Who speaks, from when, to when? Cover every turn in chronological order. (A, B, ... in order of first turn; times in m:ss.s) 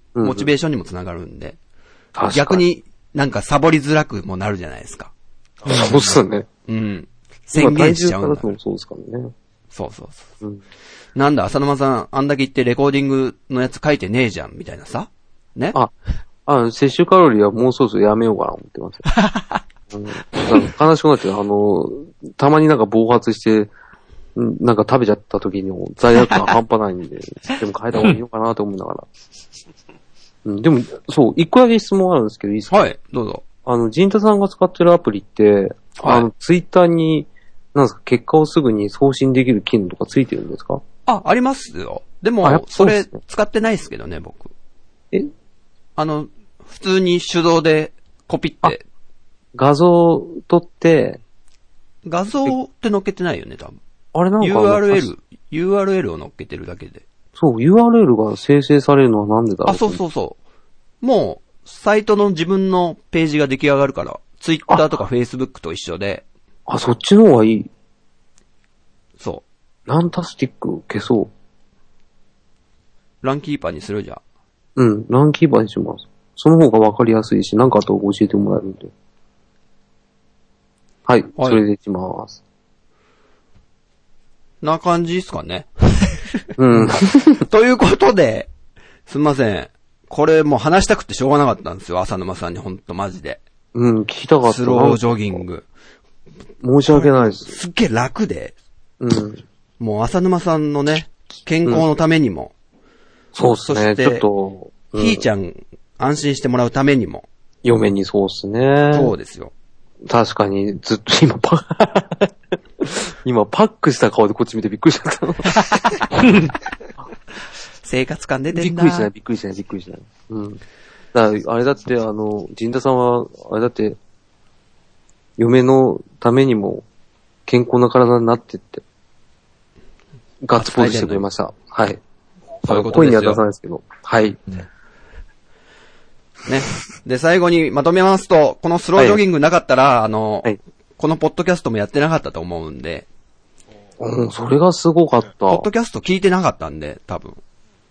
0:00.2-0:00.5 A
0:00.2-0:01.6 B
0:02.2-0:02.6 A
0:02.3-0:05.1 B
0:05.6-0:06.4 A
0:06.7-0:08.6 B
0:07.5-0:09.3 A
0:09.7-0:10.3 B
0:11.1-0:15.8 B
0:16.4-0:19.1 A
0:19.2-0:19.6 B
0:19.9-0:23.7 A
0:24.4-0:29.0 A
0:30.4-0:32.9 A
0:32.7-0:33.4 B
0:33.6-0:40.8 A
0:36.0-0:36.3 B
0:41.0-0:44.5 B
0:42.4-0:43.1 A
0:46.0-0:48.8 B
0:49.5-0:51.2 A
0:52.0-0:53.8 B
0:54.1-0:55.1 A
0:54.4-0:57.0 B
0:57.4-1:00.0 A
0:59.6-1:00.4 B
1:01.0-1:06.2 B
1:06.7-1:07.7 A
1:09.2-1:09.4 B
1:09.9-1:11.3 A
1:13.2-1:14.2 B
1:14.8-1:18.9 A
1:21.1-1:22.4 A
1:24.6-1:28.5 B
1:26.6-1:27.4 A
1:29.1-1:33.4 B
1:33.7-1:35.4 A
1:34.4-1:35.6 B
1:36.6-1:37.6 A
1:36.9-1:38.5 B
1:39.0-1:39.4 A
1:39.8-1:42.5 B
1:43.3-1:45.2 A
1:43.6-1:44.2 B
1:44.9-1:47.2 B
1:47.6-1:49.1 A
1:48.9-1:49.5 B
1:50.0-1:55.8 A
1:57.8-1:59.1 B
1:58.5-2:00.6 A
2:01.1-2:04.0 A
2:05.4-2:06.8 A
2:07.5-2:08.8 A
2:10.4-2:12.0 A
2:10.5-2:11.2 B
2:12.6-2:13.4 B
2:12.6-2:14.4 A
2:16.4-2:23.0 B
2:24.0-2:25.7 A
2:25.5-2:27.4 B